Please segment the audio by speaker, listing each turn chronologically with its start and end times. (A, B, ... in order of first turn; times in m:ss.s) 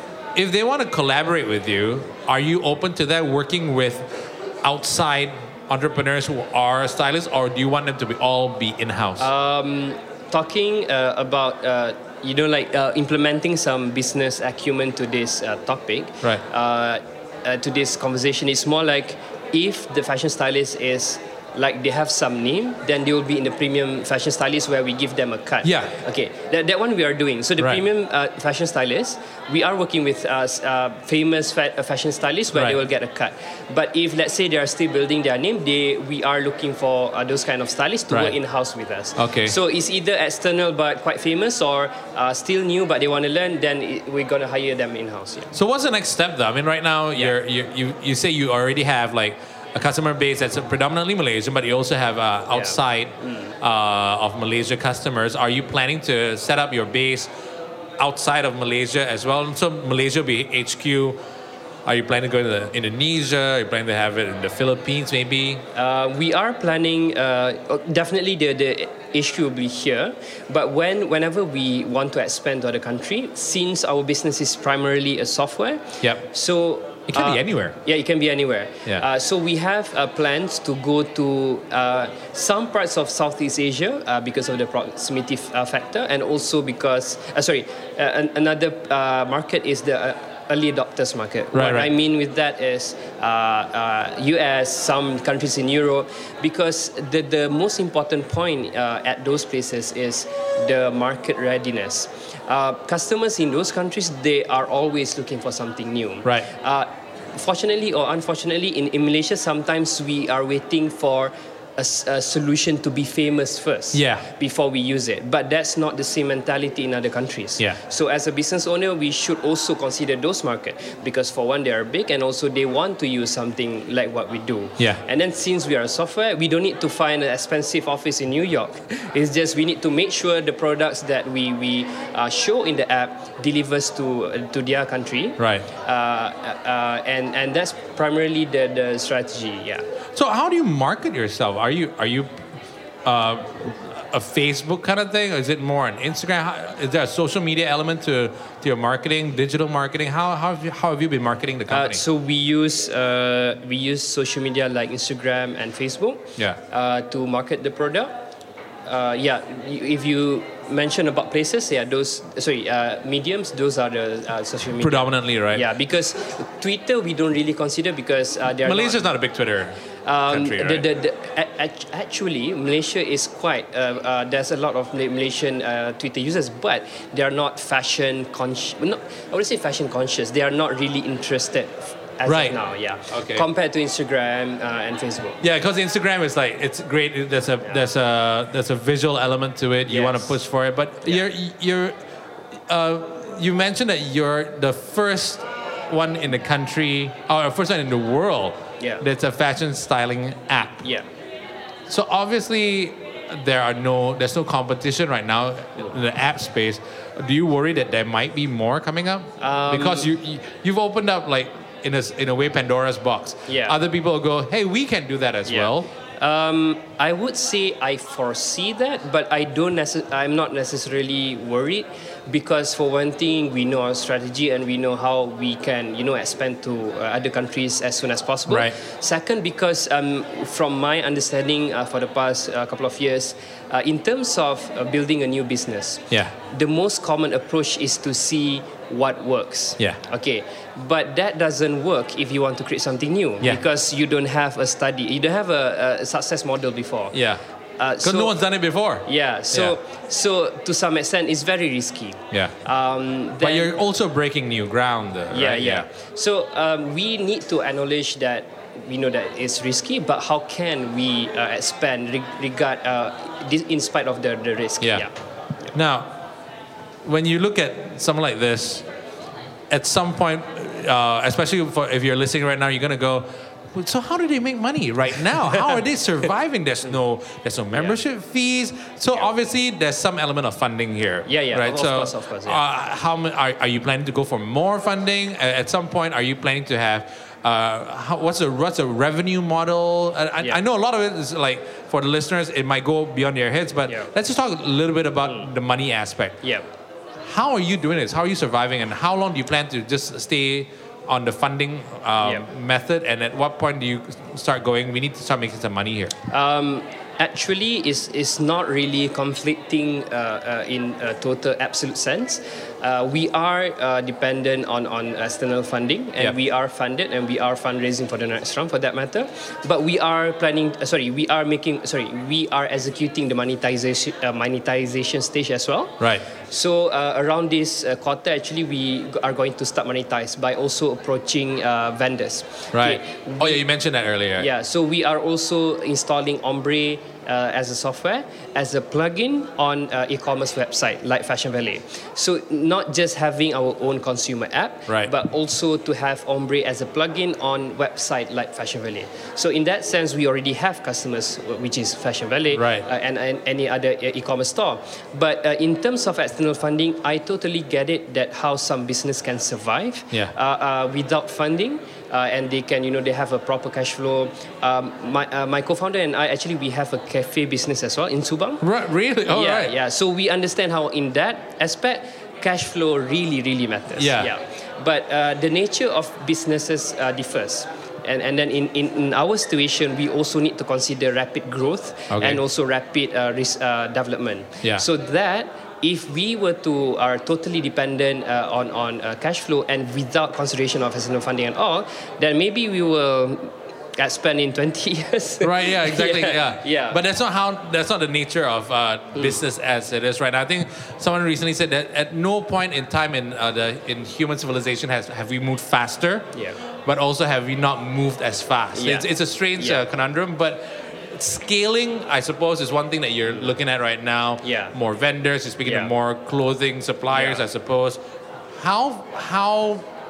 0:00.4-0:09.3 A
0:09.2-0:45.5 B
0:25.6-0:26.0 A
0:39.2-0:39.6 A
0:45.5-0:57.3 A
0:52.5-0:53.5 B
0:58.0-1:01.2 A
1:01.8-1:05.6 A
1:05.7-2:19.8 B
1:17.1-1:17.8 A
1:31.5-1:31.9 A
1:53.9-1:54.2 A
2:15.4-2:15.7 A
2:20.1-2:22.3 A
2:23.0-2:32.0 A
2:31.7-2:38.1 B
2:38.9-2:49.0 B
2:44.8-2:45.6 A
2:48.6-2:49.8 A
2:50.1-3:05.4 B
2:50.3-2:50.9 A
3:02.3-3:02.6 A
3:03.1-3:03.4 A
3:05.4-3:12.0 A
3:09.9-3:10.4 B
3:12.7-3:20.8 A
3:21.9-3:35.9 A
3:29.4-3:30.1 B
3:33.5-3:33.8 B
3:35.5-4:07.2 B
3:48.5-3:48.8 A
4:07.1-4:07.4 A
4:07.8-4:08.4 B
4:08.0-4:09.8 A
4:09.1-4:13.7 B
4:13.4-4:15.9 A
4:15.3-4:25.1 B
4:24.8-4:25.1 A
4:25.7-4:26.1 A
4:27.0-4:28.9 A
4:29.7-4:56.4 A
4:37.7-4:38.0 B
4:41.3-4:42.6 B
4:57.2-5:06.2 A
5:06.3-5:33.6 B
5:26.0-5:26.2 A
5:32.7-5:34.5 A
5:34.4-6:08.6 B
5:52.5-5:52.9 A
6:08.6-6:09.7 A
6:09.3-6:37.0 B
6:14.0-6:14.3 A
6:22.1-6:22.4 A
6:35.4-6:46.3 A
6:46.8-6:58.0 A
6:48.8-6:49.8 B
6:54.4-6:54.7 B
6:55.6-6:55.9 B
6:57.1-6:57.4 B
6:58.5-6:59.8 A